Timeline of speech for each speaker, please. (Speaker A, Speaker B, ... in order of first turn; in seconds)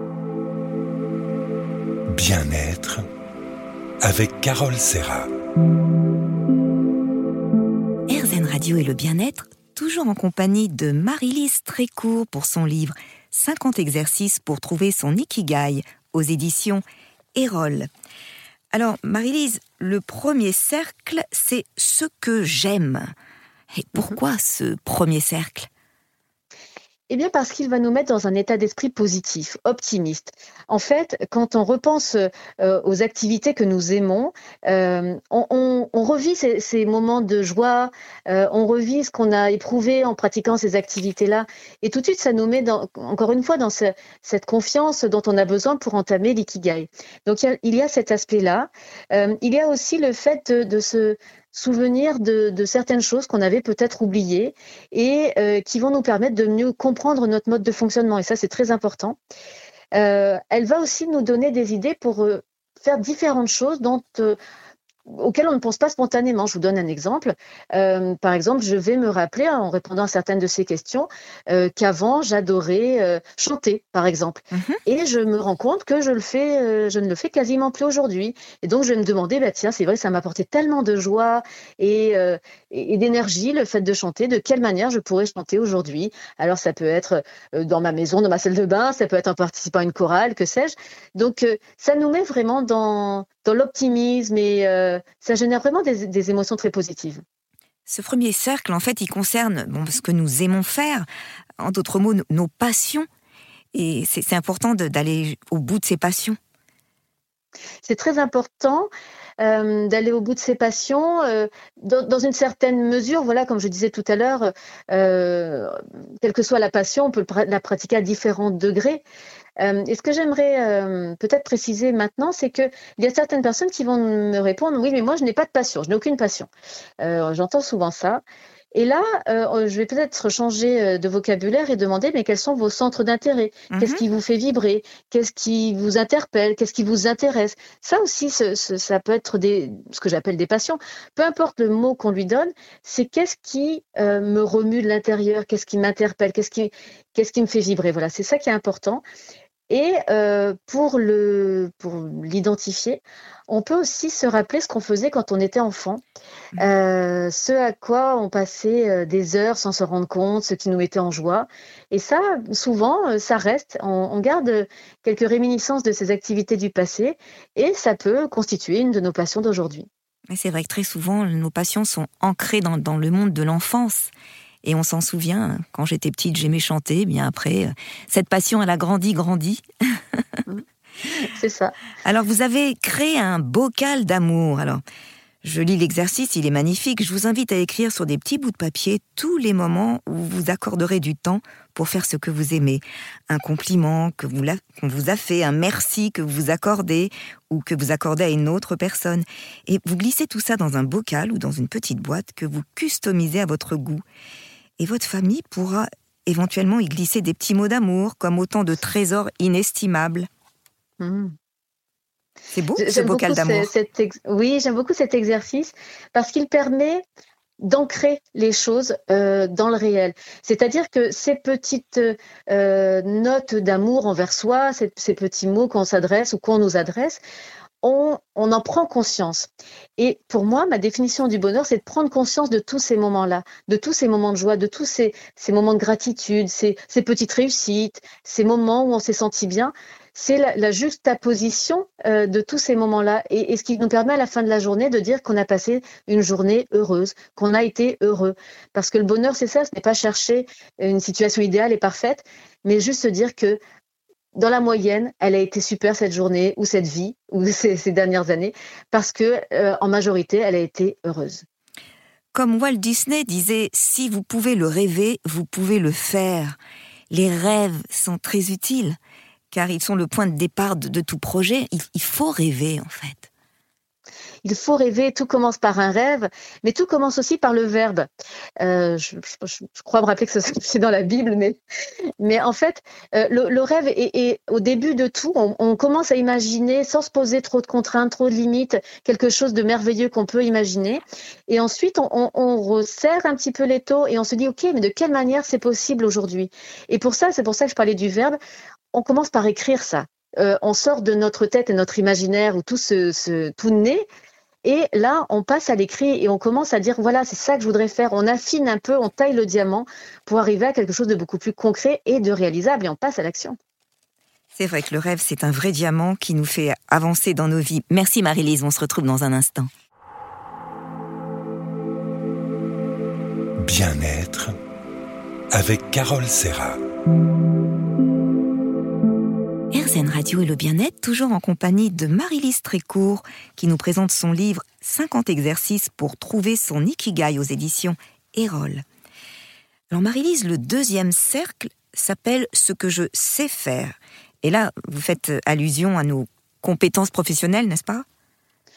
Speaker A: 2.1-3.0, 4.0-5.3, 323.6-324.5, 325.5-326.8
Speaker B: 8.1-16.8, 17.4-17.9, 18.7-23.1, 23.7-25.7, 74.5-74.8, 97.9-101.0, 101.6-103.1, 103.7-106.4, 133.7-134.0, 170.3-174.1, 174.6-179.6, 182.0-184.8, 185.4-204.0, 204.8-210.3, 212.5-213.7, 262.3-266.6, 267.1-269.0, 269.5-273.3, 314.5-319.7, 329.7-338.8, 339.9-348.0
Speaker C: 27.1-59.2, 59.9-64.4, 65.1-97.2, 107.8-119.0, 119.6-128.2, 128.7-149.0, 149.7-156.0, 156.6-169.9, 181.2-181.7, 211.0-211.3, 212.8-217.0, 217.6-227.2, 227.8-253.6, 254.3-261.4, 274.4-278.1, 278.6-281.6, 282.2-298.4, 298.9-304.1, 304.6-313.6